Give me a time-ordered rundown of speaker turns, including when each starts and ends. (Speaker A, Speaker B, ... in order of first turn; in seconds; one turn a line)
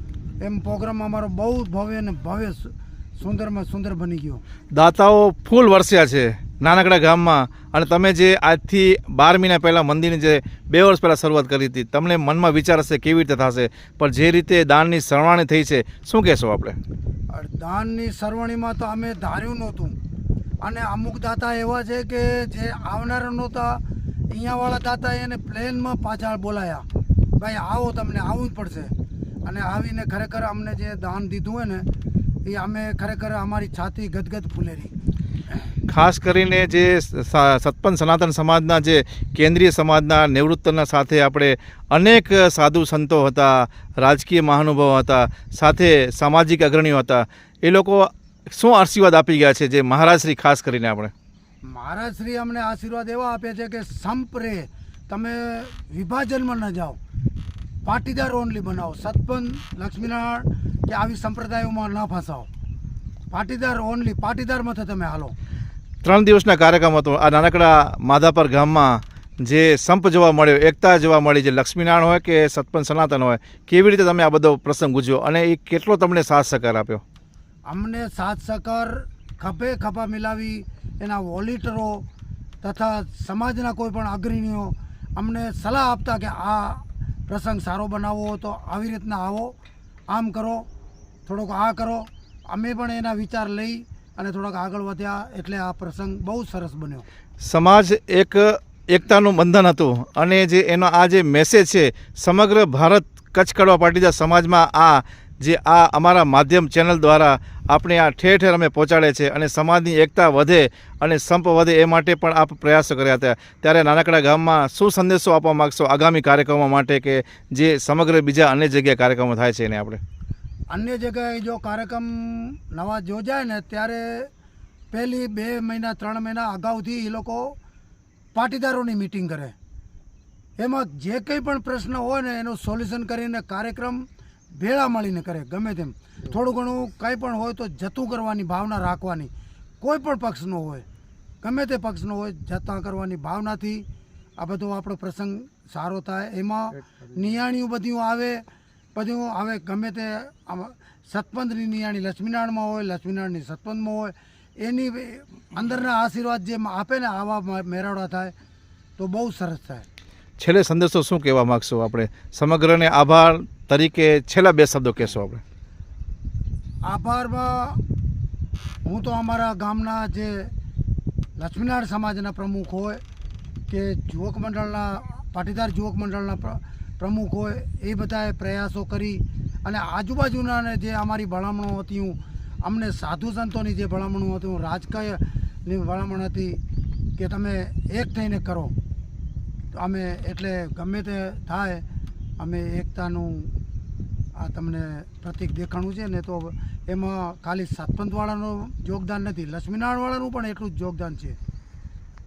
Speaker A: 0.4-4.4
Speaker B: 4.7-16.8
Speaker A: 17.3-20.0
Speaker A: 20.6-26.9
Speaker A: 27.4-28.9
Speaker A: 29.4-31.9
Speaker A: 32.4-34.9
Speaker B: 35.9-51.1
Speaker A: 51.7-57.0
Speaker A: 57.8-62.5
Speaker A: 63.3-65.3
Speaker B: 66.0-77.0
Speaker A: 77.7-82.0
Speaker A: 82.6-89.5
Speaker A: 90.1-90.7
Speaker A: 91.2-97.0
Speaker B: 97.4-120.0
Speaker A: 120.7-124.3
Speaker A: 124.9-127.5
Speaker A: 128.3-129.5
Speaker A: 130.6-140.8
Speaker A: 141.4-143.8
Speaker A: 144.4-148.4
Speaker A: 148.9-158.3
Speaker A: 159.0-159.8
Speaker B: 160.4-165.4
Speaker A: 166.8-167.8
Speaker A: 168.8-170.5
Speaker A: 171.4-173.0
Speaker A: 173.7-186.6
Speaker A: 187.2-188.7
Speaker A: 189.7-191.8
Speaker A: 192.4-193.5
Speaker A: 194.3-201.4